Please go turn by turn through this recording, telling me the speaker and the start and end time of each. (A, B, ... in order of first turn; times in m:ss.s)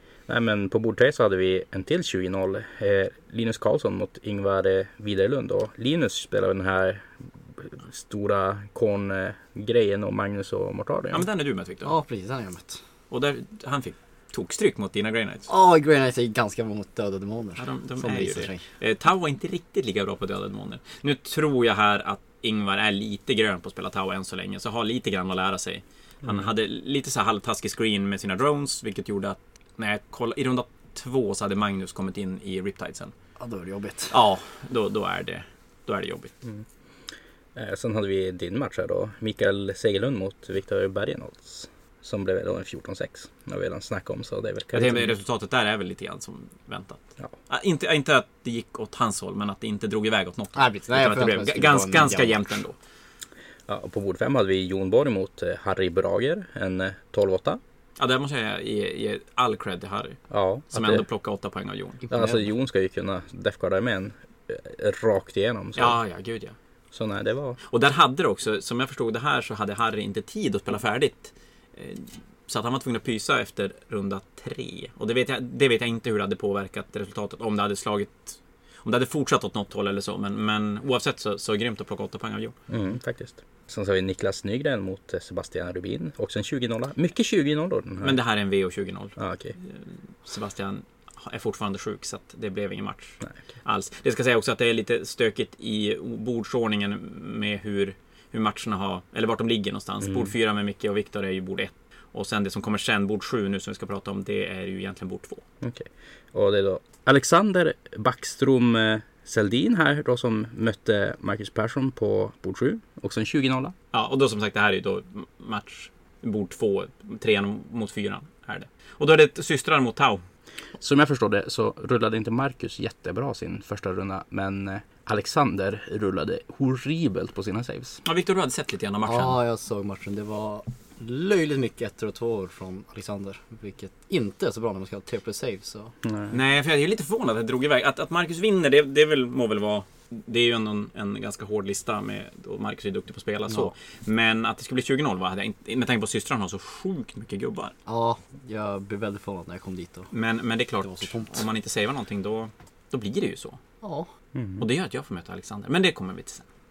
0:00.3-0:11.3 A
0:11.1-0:11.9 B
0:11.8-0:12.8 C
0:13.1-0:15.5 B
0:15.5-0:18.7 C
0:17.6-0:33.1 B
0:33.4-0:34.1 C
0:34.1-0:36.3 B
0:37.6-0:45.1 A
0:44.7-0:52.8 B
0:50.6-0:52.6 C
0:53.7-0:57.6 A
0:58.0-1:02.1 B
1:00.3-1:01.0 A
1:02.0-1:02.4 C
1:02.1-1:06.0 A
1:05.8-1:06.6 B
1:06.9-1:07.6 A
1:07.7-1:22.6 B
1:22.7-1:28.2 A
1:28.0-1:45.4 B
1:29.2-1:29.6 A
1:40.0-1:40.3 A
1:45.6-1:53.7 A
1:53.9-2:00.2 B
2:00.8-2:08.0 A
2:08.0-2:09.4 B
2:09.0-2:15.9 C
2:16.0-2:16.3 A
2:16.3-2:27.7 B
2:23.5-2:23.7 C
2:27.9-2:30.1 C
2:30.1-2:33.6 B
2:30.8-2:31.5 C
2:33.8-2:34.1 C
2:34.4-2:34.7 A
2:34.6-2:36.4 B